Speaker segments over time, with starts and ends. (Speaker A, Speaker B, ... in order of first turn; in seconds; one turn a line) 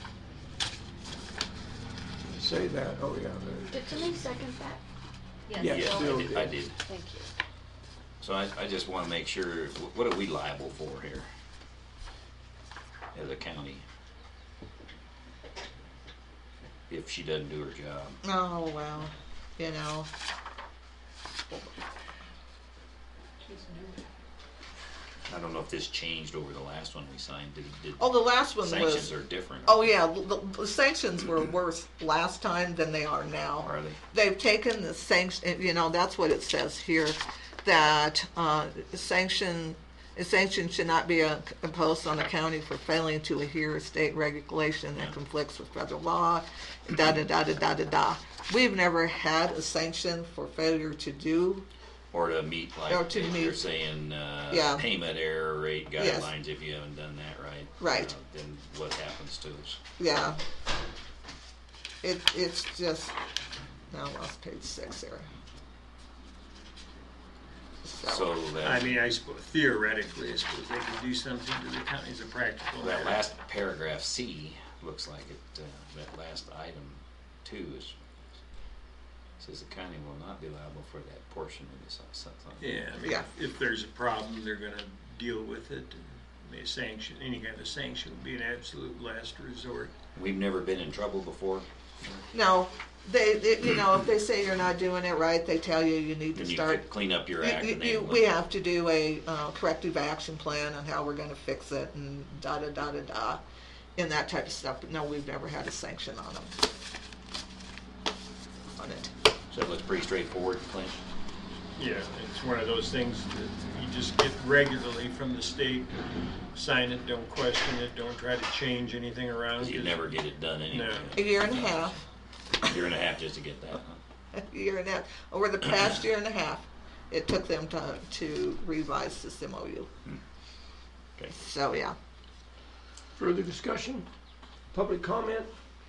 Speaker A: 2.2-4.2
Speaker B: 3.7-4.8
Speaker B: 5.5-7.3
Speaker A: 5.5-6.6
Speaker C: 5.6-6.8
Speaker C: 8.2-11.3
Speaker C: 13.1-13.8
Speaker C: 16.9-18.2
Speaker D: 18.2-20.1
Speaker D: 21.5-21.7
Speaker B: 23.4-24.0
Speaker C: 25.3-30.0
Speaker D: 28.0-29.1
Speaker D: 29.7-51.7
Speaker C: 33.6-34.0
Speaker C: 52.1-59.8
Speaker D: 52.9-53.6
Speaker D: 54.5-54.8
Speaker D: 56.0-56.3
Speaker D: 57.8-58.1
Speaker D: 60.0-60.4
Speaker D: 62.0-63.1
Speaker D: 63.9-65.3
Speaker D: 67.8-68.2
Speaker C: 68.0-69.0
Speaker E: 68.6-73.2
Speaker C: 72.8-78.0
Speaker C: 79.4-82.7
Speaker E: 82.6-89.9
Speaker C: 90.2-92.2
Speaker D: 92.3-96.8
Speaker C: 96.3-98.3
Speaker D: 97.4-103.4
Speaker D: 104.0-106.5
Speaker D: 108.8-109.1
Speaker C: 109.5-111.0
Speaker E: 111.8-121.1
Speaker C: 119.6-122.0
Speaker D: 121.2-122.0
Speaker C: 122.6-124.0
Speaker D: 124.3-129.9
Speaker D: 131.3-131.9
Speaker A: 133.2-134.1
Speaker A: 134.7-135.5